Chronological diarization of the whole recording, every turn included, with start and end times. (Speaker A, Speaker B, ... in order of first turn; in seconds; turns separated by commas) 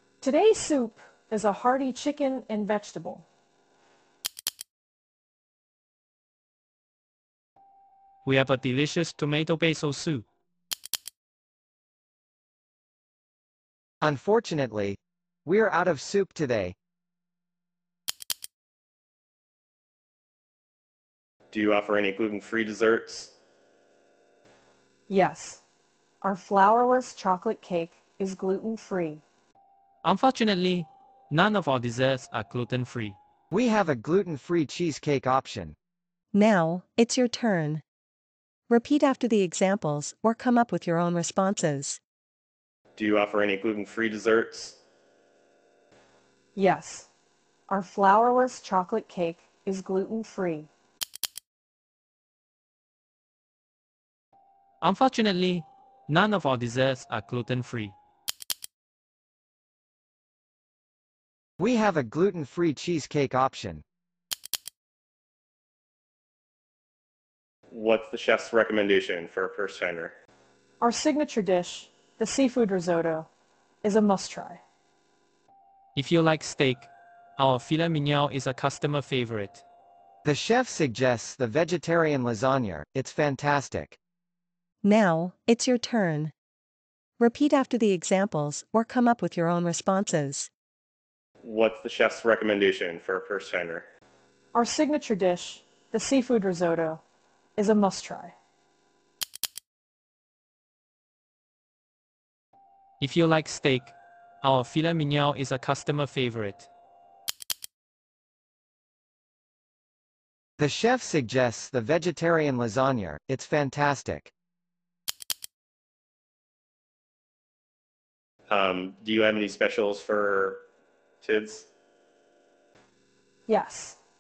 Speaker A: 0.2-3.2, Speaker B: 8.2-10.3, Speaker C: 14.0-16.8, Speaker D: 21.5-23.3, Speaker A: 25.1-25.6, Speaker A: 26.2-29.2, Speaker B: 30.0-33.2, Speaker C: 33.5-35.8, Speaker E: 36.3-37.8, Speaker E: 38.7-42.0, Speaker D: 43.0-44.8, Speaker A: 46.6-47.1, Speaker A: 47.7-50.7, Speaker B: 54.8-58.0, Speaker C: 61.6-63.8, Speaker D: 67.7-70.2, Speaker A: 70.8-73.3, Speaker A: 73.8-74.6, Speaker B: 76.0-79.6, Speaker C: 80.2-84.0, Speaker E: 84.8-86.3, Speaker E: 87.2-90.5, Speaker D: 91.4-93.9, Speaker A: 94.5-97.0, Speaker A: 97.6-98.3, Speaker B: 103.0-106.7, Speaker C: 110.6-114.3, Speaker D: 118.5-120.7, Speaker D: 121.2-121.7, Speaker A: 123.5-124.0